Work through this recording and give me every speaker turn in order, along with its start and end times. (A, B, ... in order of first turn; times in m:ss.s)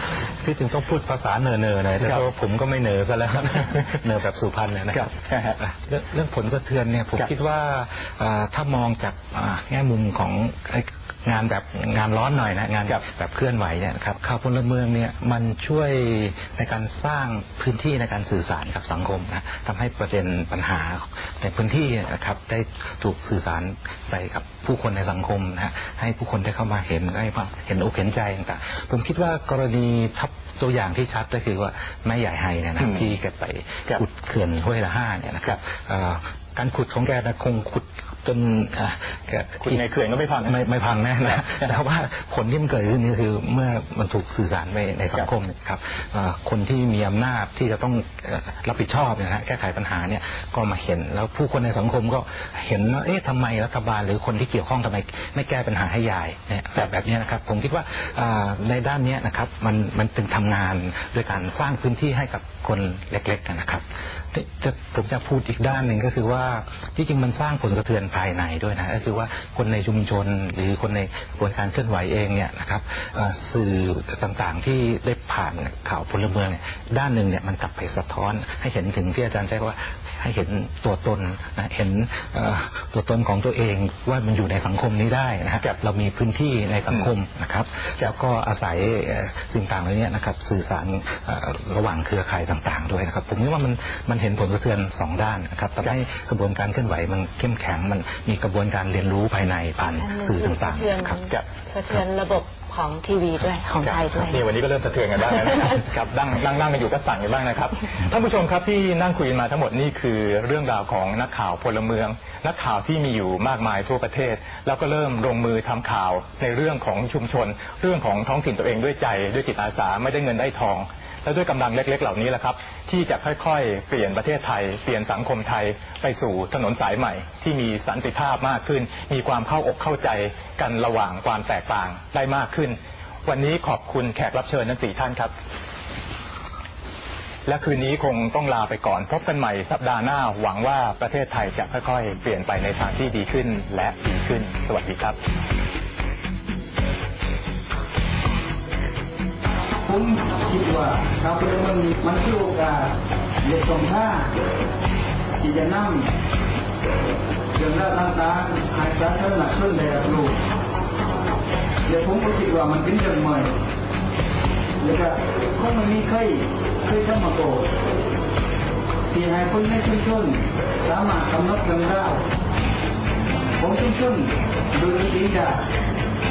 0:00.4-0:39.8 A
0:02.0-0:02.2 B
0:04.9-0:05.6 B
0:32.8-0:33.0 B
0:39.6-0:40.6 B
0:40.4-1:41.2 A
0:41.3-0:41.7 B
1:40.0-1:44.4 C
1:43.8-2:15.3 B
2:17.5-2:25.2 B
2:29.8-2:32.9 D
2:33.4-2:34.3 D
2:35.4-2:36.1 D
2:37.6-2:40.4 D
2:41.9-2:43.5 D
2:44.8-2:47.7 D
2:49.1-2:52.2 D
2:53.6-2:55.6 D